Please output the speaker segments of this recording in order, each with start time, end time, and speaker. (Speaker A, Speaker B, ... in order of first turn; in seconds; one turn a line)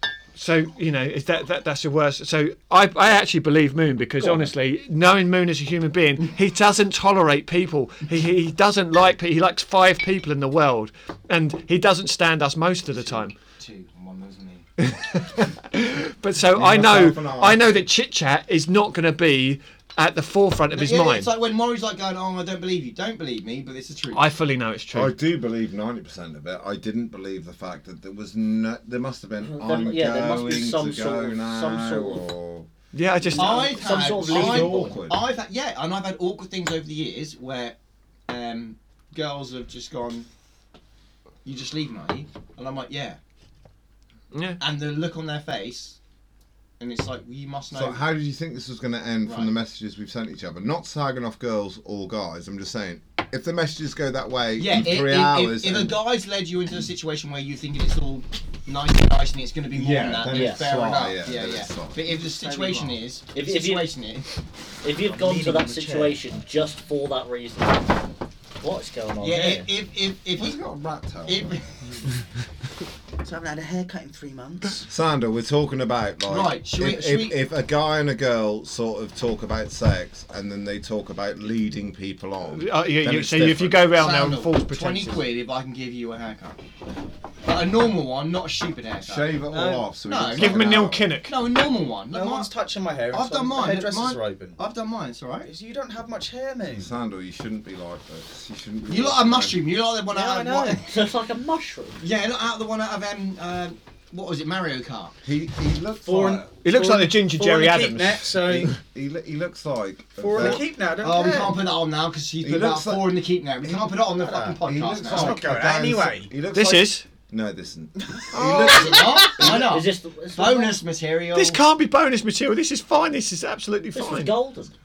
Speaker A: 0.3-13.3
Speaker B: 4.2-4.5
Speaker C: 12.9-14.7
Speaker A: 14.8-21.3
Speaker D: 16.5-17.7
Speaker C: 20.7-24.3
Speaker A: 24.1-25.1
Speaker D: 24.9-32.7
Speaker B: 29.4-32.3
Speaker A: 32.9-33.8
Speaker B: 33.3-35.0
Speaker C: 33.4-37.8
Speaker D: 34.1-35.2
Speaker C: 38.3-40.3
Speaker C: 41.4-43.2
Speaker A: 44.3-44.6
Speaker C: 44.6-46.0
Speaker C: 46.8-48.0
Speaker D: 47.7-56.0
Speaker C: 49.2-49.5
Speaker C: 54.6-64.3
Speaker D: 59.7-62.0
Speaker B: 60.3-60.7
Speaker E: 62.1-63.0
Speaker B: 63.3-63.9
Speaker B: 64.8-68.1
Speaker E: 65.0-66.2
Speaker B: 68.6-69.7
Speaker C: 69.2-70.6
Speaker D: 70.3-71.5
Speaker C: 71.3-71.6
Speaker E: 73.2-74.9
Speaker D: 74.9-84.0
Speaker C: 76.3-77.4
Speaker A: 82.6-85.2
Speaker C: 83.9-86.6
Speaker C: 87.4-92.5
Speaker D: 89.0-91.1
Speaker E: 89.5-89.8
Speaker A: 90.3-91.3
Speaker E: 92.1-94.6
Speaker C: 93.1-95.5
Speaker E: 95.5-97.0
Speaker D: 96.8-99.6
Speaker C: 98.9-100.9
Speaker E: 100.1-100.8
Speaker B: 100.8-102.0
Speaker C: 102.0-105.2
Speaker D: 105.2-106.5
Speaker E: 106.0-108.7
Speaker A: 106.6-108.6
Speaker D: 108.5-110.6
Speaker E: 110.2-111.6
Speaker C: 110.3-115.4
Speaker D: 112.4-113.1
Speaker E: 114.1-116.3
Speaker D: 114.6-118.9
Speaker A: 116.5-117.0
Speaker E: 118.0-119.2
Speaker C: 118.3-121.6
Speaker B: 119.0-120.8
Speaker A: 121.3-124.3
Speaker B: 123.9-124.7